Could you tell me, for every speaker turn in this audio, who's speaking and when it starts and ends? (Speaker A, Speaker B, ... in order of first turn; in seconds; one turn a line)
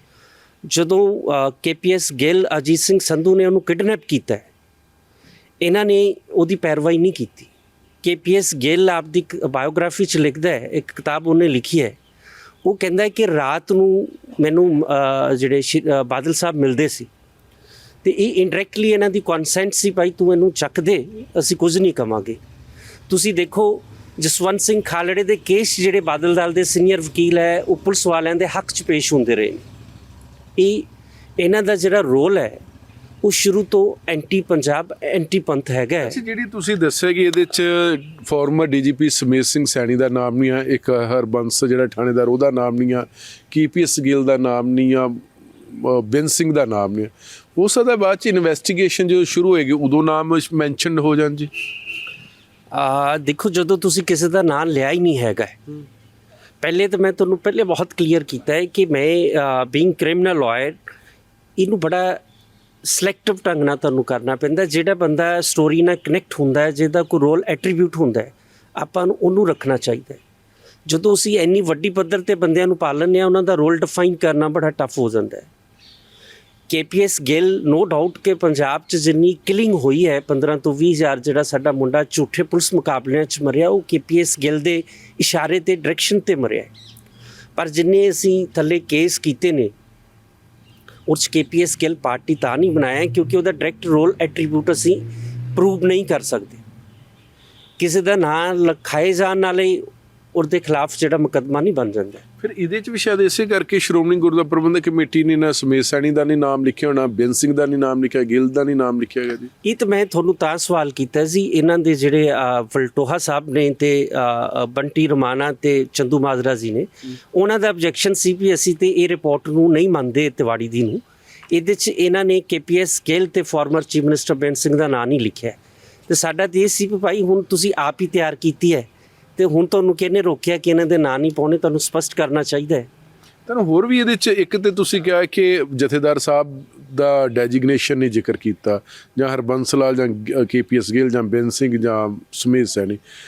Speaker A: 0.6-4.5
Speaker A: 5.6-7.5
Speaker A: 8.0-12.0
Speaker A: 12.6-17.1
Speaker A: 18.0-22.4
Speaker A: 23.1-29.6
Speaker A: 30.6-30.9
Speaker A: 31.4-32.6
Speaker A: 33.2-36.2
Speaker B: 36.0-51.5
Speaker A: 52.7-55.6
Speaker A: 56.6-60.8
Speaker A: 61.6-62.2
Speaker A: 62.8-70.2
Speaker A: 70.9-75.5
Speaker A: 76.7-86.7
Speaker A: 87.5-89.7
Speaker A: 91.1-96.6
Speaker A: 97.8-99.8
Speaker A: 100.3-102.2
Speaker B: 102.4-109.5
Speaker A: 109.6-132.9
Speaker B: 133.5-143.0